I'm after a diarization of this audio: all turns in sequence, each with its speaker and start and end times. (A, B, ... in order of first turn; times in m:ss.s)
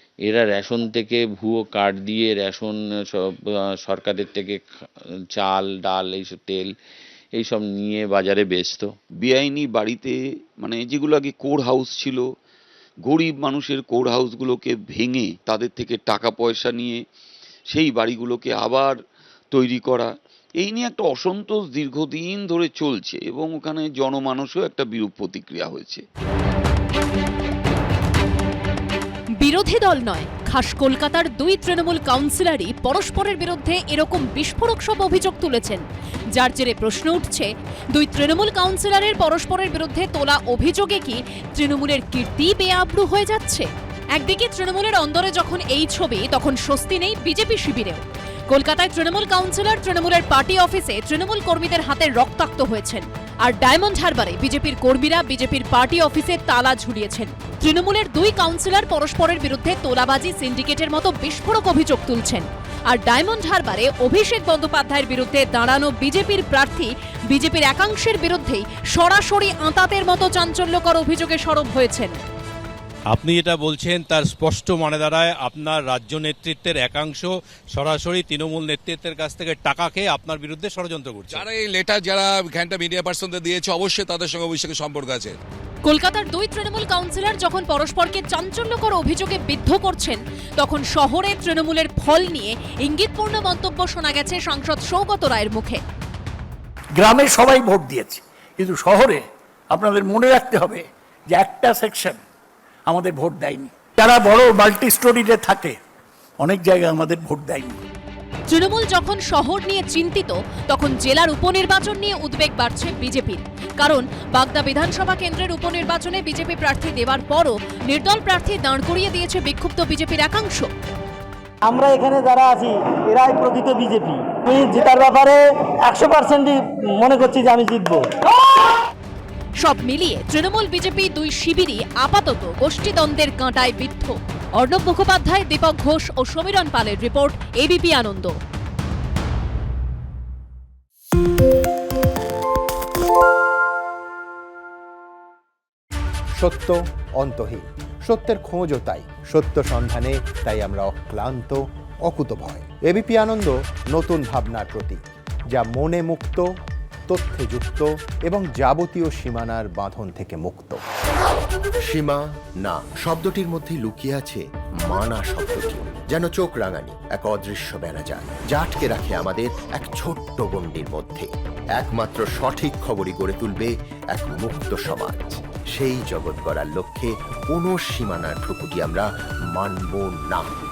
0:00.2-0:03.3 A
0:03.8-0:04.6 A
0:05.3-0:06.7 A
0:07.4-0:08.9 A
0:09.1-0:12.3 B
0:13.0-0:17.0 B
0:17.7-0:19.0 B
0:19.5-0:26.0 B
0:29.4-0:35.8 C
0:36.3-1:12.2 C
1:13.1-1:21.5 D
1:21.3-1:25.3 E
1:25.8-1:35.8 C
1:37.0-1:42.2 F
1:42.8-1:45.8 F
1:46.4-1:47.8 F
1:48.5-2:00.7 C
2:01.6-2:08.1 G
2:09.6-2:18.4 C
2:26.4-2:35.0 H
2:35.5-2:36.5 H
2:37.1-2:40.8 H
2:41.8-3:00.5 I